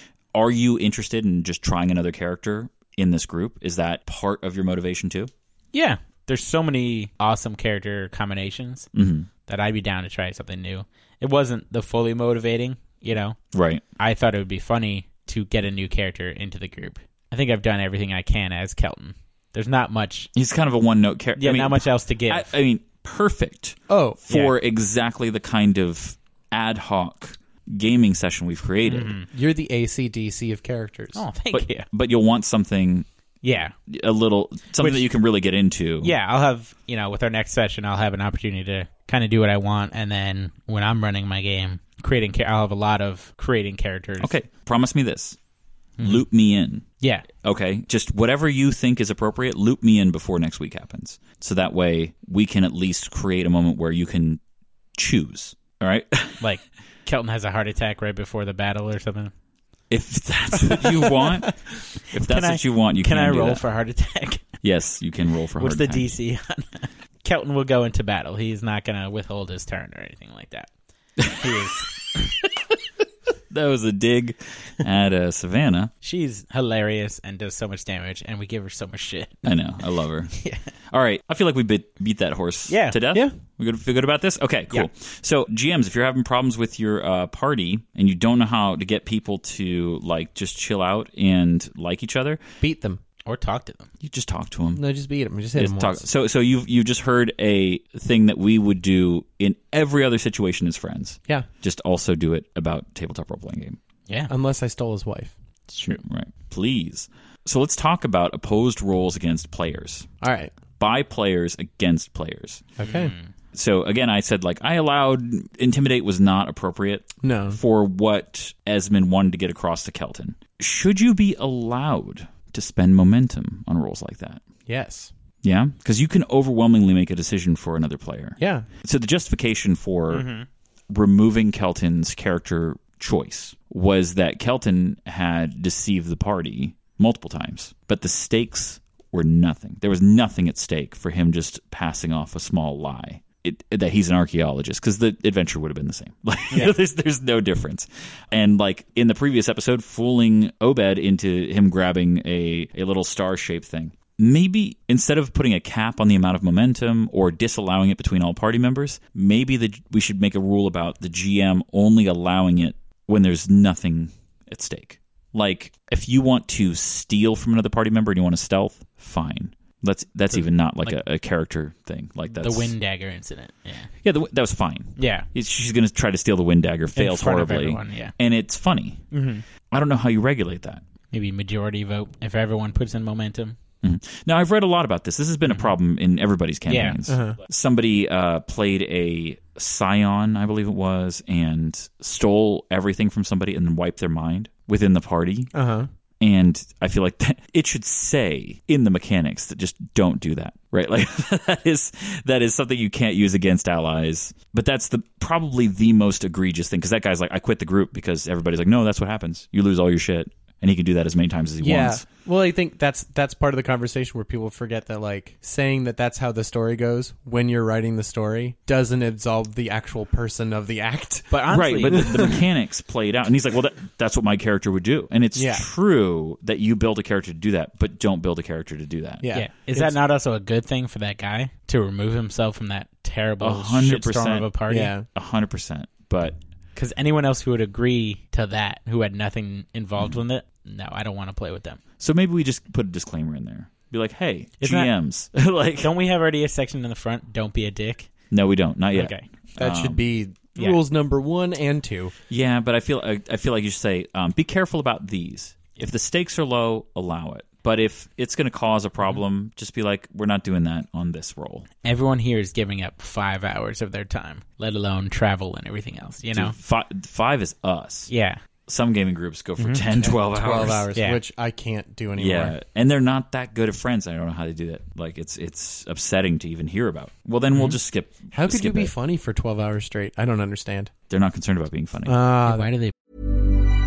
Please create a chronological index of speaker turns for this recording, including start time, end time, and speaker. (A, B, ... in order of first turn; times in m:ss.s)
0:00.3-0:05.3 A
0:05.7-0:08.9 B
0:08.9-0:09.3 A
0:09.5-0:13.4 B
0:13.5-0:13.8 A
0:14.0-0:20.3 B
0:20.4-0:29.2 A
0:21.4-0:22.5 B
0:23.9-0:24.2 C
0:24.3-0:24.6 B
0:28.9-0:29.3 B
0:29.3-0:31.2 C
0:31.1-0:31.9 B
0:31.5-0:33.1 A
0:33.4-0:33.7 B
0:33.9-0:36.1 A
0:34.8-0:35.1 B
0:36.0-0:44.3 B
0:44.2-0:45.4 A
0:46.0-0:46.2 B
0:46.0-0:46.9 A
0:47.0-0:47.2 B
0:47.4-0:54.4 A
0:55.0-0:56.4 A
0:56.4-0:59.3 B
0:59.9-1:03.6 A
1:02.2-1:04.4 B
1:04.6-1:06.1 A
1:05.6-1:10.7 B
1:11.2-1:11.7 A
1:11.4-1:12.2 B
1:13.5-1:15.9 A
1:16.0-1:19.5 B
1:19.4-1:20.4 A
1:20.4-1:20.6 B
1:20.9-1:32.4 A
1:22.7-1:23.0 B
1:32.6-1:33.0 C
1:33.2-1:33.9 B
1:34.0-1:34.8 A
1:34.8-1:36.0 C
1:35.6-1:43.8 A
1:44.3-1:45.3 C
1:45.7-1:46.0 B
1:45.8-1:50.1 A
1:50.2-1:50.5 C
1:50.8-1:52.7 A
1:52.8-1:53.2 C
1:52.8-1:53.3 B
1:53.5-2:04.4 A
1:57.2-1:57.6 C
2:04.7-2:05.1 C
2:05.4-2:10.3 A
2:08.4-2:08.7 C
2:10.1-2:10.5 B
2:10.9-2:52.8 A
2:50.3-2:51.0 B
2:52.3-2:53.9 B
2:54.0-2:59.1 A
2:55.0-2:55.3 B
2:57.0-2:58.1 B
2:59.1-2:59.4 B
2:59.7-3:00.8 A
3:01.1-3:03.6 B
3:03.8-3:15.6 A
3:05.5-3:05.7 B
3:06.7-3:07.0 B
3:07.1-3:07.4 C
3:15.5-3:15.9 C
3:16.2-3:32.0 A
3:31.6-3:42.4 C
3:41.3-3:42.0 B
3:41.5-3:49.2 A
3:45.4-3:45.7 C
3:49.2-3:50.0 C
3:49.3-3:54.9 B
3:53.4-3:54.5 A
3:54.7-3:55.1 C
3:55.1-3:56.4 A
3:56.8-4:01.8 B
4:02.0-4:05.9 A
4:04.6-4:04.9 B
4:05.8-4:08.1 B
4:08.3-4:10.0 A
4:08.9-4:09.3 B
4:09.6-4:12.1 C
4:12.3-4:21.7 A
4:21.8-4:26.6 B
4:26.3-4:28.1 A
4:28.1-4:28.4 B
4:28.7-4:30.9 A
4:29.6-4:29.9 B
4:30.0-4:32.6 C
4:32.2-4:38.9 A
4:38.3-4:40.9 C
4:41.1-4:42.2 A
4:42.1-4:42.7 C
4:42.4-4:42.9 B